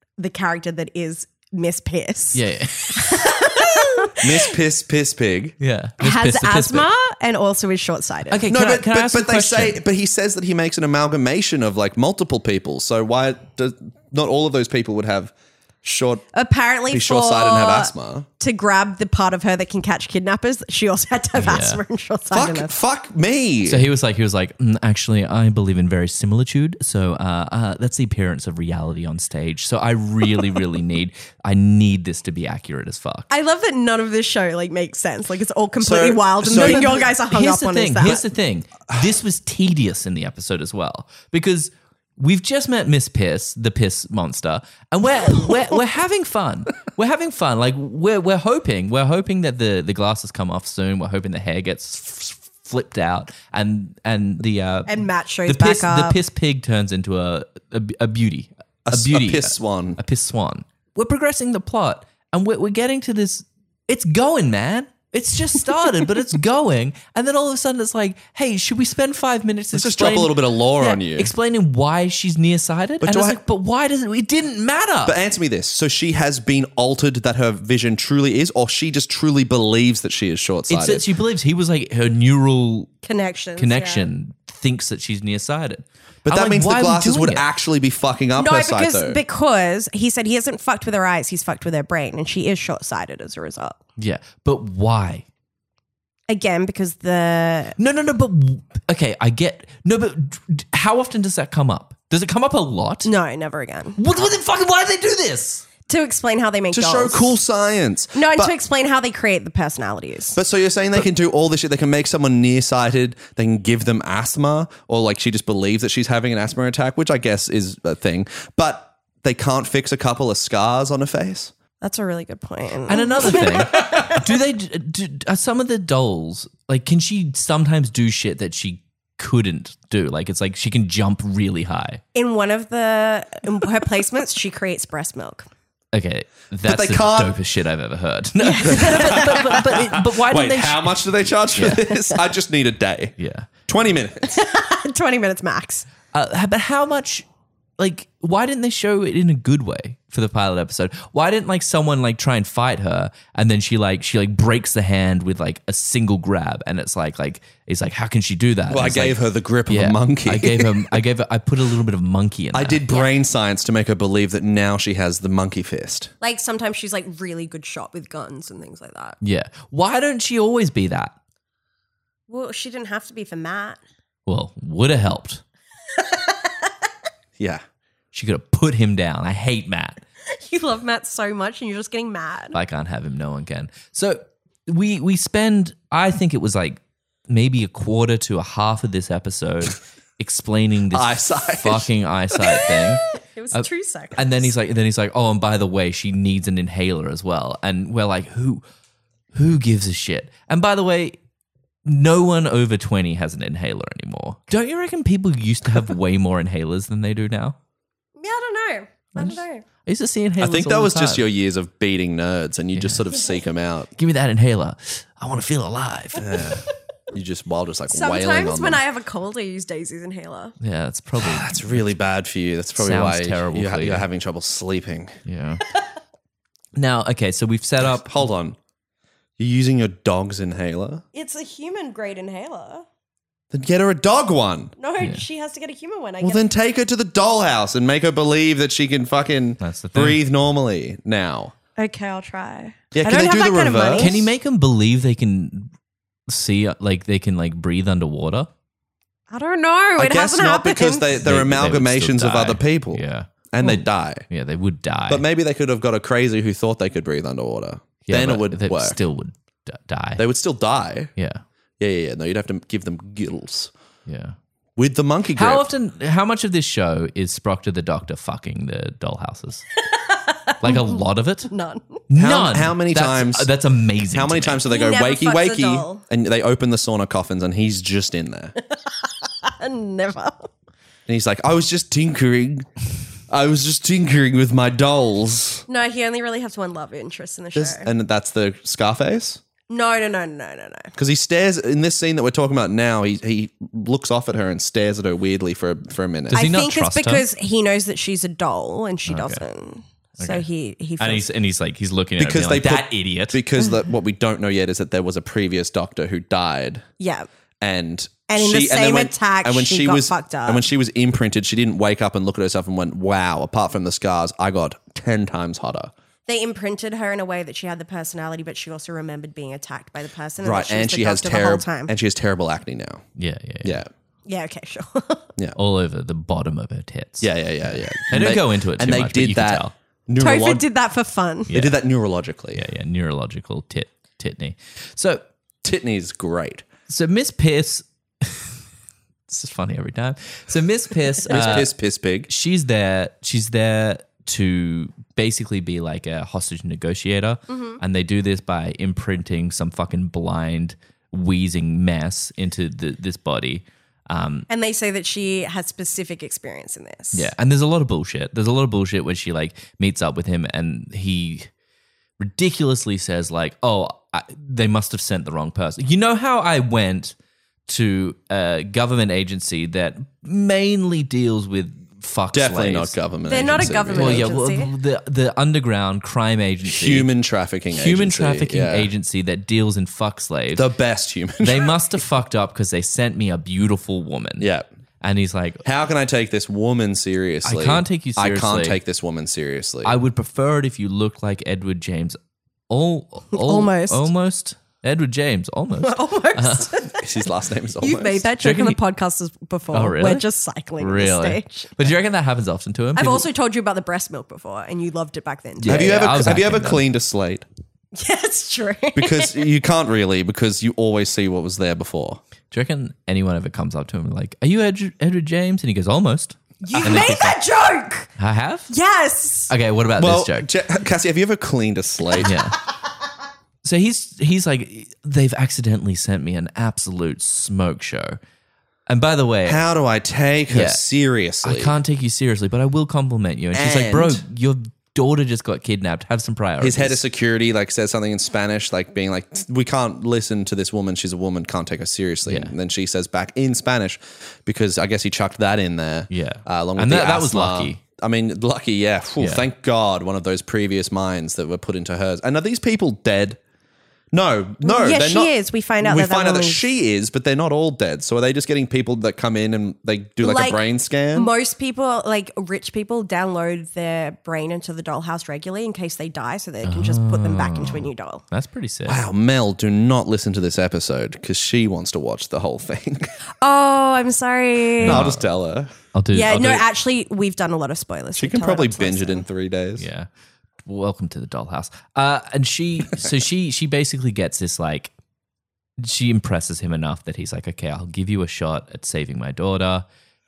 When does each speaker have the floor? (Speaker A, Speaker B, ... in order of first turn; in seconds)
Speaker A: 0.2-4.5, 6.0-8.4, 16.3-22.7, 33.3-38.2, 54.9-56.2, 83.0-84.1, 88.3-93.8, 96.3-97.7, 103.0-104.0, 105.9-107.4, 108.1-110.4, 121.8-124.2, 132.1-135.5, 138.4-139.6, 144.3-145.9, 166.2-169.2, 172.3-173.8, 176.0-176.7, 180.3-182.6, 192.6-194.5, 208.2-209.6, 217.9-220.5, 231.1-232.8, 234.8-236.4, 241.8-244.1, 249.3-251.2, 269.9-272.0, 274.7-276.0, 278.7-280.5, 285.7-287.9, 289.7-290.9, 296.3-301.2, 307.0-307.3, 308.3-310.6, 316.3-321.9, 324.3-325.3, 330.2-331.5, 347.5-347.8, 354.5-357.3, 373.3-374.7, 393.3-394.1, 395.8-397.2, 397.8-401.9, 402.9-406.1, 407.9-409.4, 416.6-418.1, 418.7-419.5, 454.6-456.6, 460.2-460.6, 461.1-468.2, 473.4-475.1, 476.1-479.2
Speaker B: 2.3-3.1, 5.6-6.9, 8.3-9.8, 21.4-21.8, 23.6-33.3, 36.4-75.2, 80.7-82.9, 83.6-87.4, 94.0-95.2, 97.8-103.1, 104.0-105.7, 122.9-132.0, 135.9-141.9, 143.2-143.5, 146.1-147.2, 147.8-162.8, 169.2-171.2, 174.2-175.4, 178.1-180.0, 182.5-193.7, 194.2-198.6, 199.3-201.2, 201.8-207.6, 209.2-211.2, 212.7-213.0, 214.0-216.5, 220.6-221.9, 222.8-224.1, 225.2-225.6, 226.7-228.1, 239.6-240.2, 244.0-245.7, 246.3-248.5, 251.2-255.2, 258.1-260.2, 261.2-261.4, 264.1-264.4, 265.3-269.6, 270.6-271.5, 272.1-274.6, 296.3-297.2, 299.1-299.4, 300.2-300.4, 301.0-303.4, 323.2-323.8, 325.6-329.7, 331.5-331.8, 332.5-335.2, 336.9-338.6, 339.3-341.7, 342.3-354.5, 357.1-361.5, 362.2-367.1, 367.7-372.9, 373.9-377.1, 377.7-380.7, 381.4-384.5, 385.0-385.6, 387.4-388.8, 389.8-392.2, 392.7-396.7, 398.4-398.8, 399.7-400.3, 400.8-403.3, 405.6-406.8, 412.5-417.4, 418.2-418.7, 419.5-420.5, 422.2-422.6, 423.6-428.2, 428.9-429.6, 430.5-430.8, 431.4-437.0, 442.2-442.5, 446.1-447.8, 449.2-449.4, 466.6-469.0, 474.8-475.3, 475.9-476.6, 479.8-480.1, 480.6-484.9, 485.8-489.8
Speaker C: 4.2-5.5, 8.5-16.2, 16.9-18.3, 22.3-23.9, 35.8-37.1, 58.9-60.0, 69.7-71.3, 73.0-73.4, 75.0-81.0, 86.2-89.2, 106.7-108.5, 110.3-121.5, 123.3-124.2, 136.6-137.3, 138.6-143.2, 143.7-144.4, 158.7-161.0, 162.5-166.1, 177.4-177.6, 190.9-191.9, 210.4-213.9, 216.2-218.8, 221.2-225.2, 227.8-228.6, 229.4-231.0, 233.5-234.7, 236.2-241.5, 242.9-244.3, 250.0-254.2, 255.1-259.0, 260.2-261.1, 261.8-263.7, 264.8-265.6, 272.1-273.5, 274.1-278.5, 281.1-282.7, 283.3-285.6, 287.5-289.4, 290.9-296.4, 302.2-306.8, 307.6-315.9, 320.4-323.0, 323.6-323.9, 327.2-330.6, 331.5-332.6, 335.6-336.6, 341.3-342.3, 372.3-374.4, 376.6-378.9, 380.5-381.8, 384.4-384.7, 385.6-389.9, 396.9-398.3, 405.7-407.4, 408.9-412.2, 420.0-422.3, 429.4-431.8, 433.5-434.2, 436.6-453.4, 454.1-461.3, 468.9-473.1, 474.8-475.7, 478.1-479.9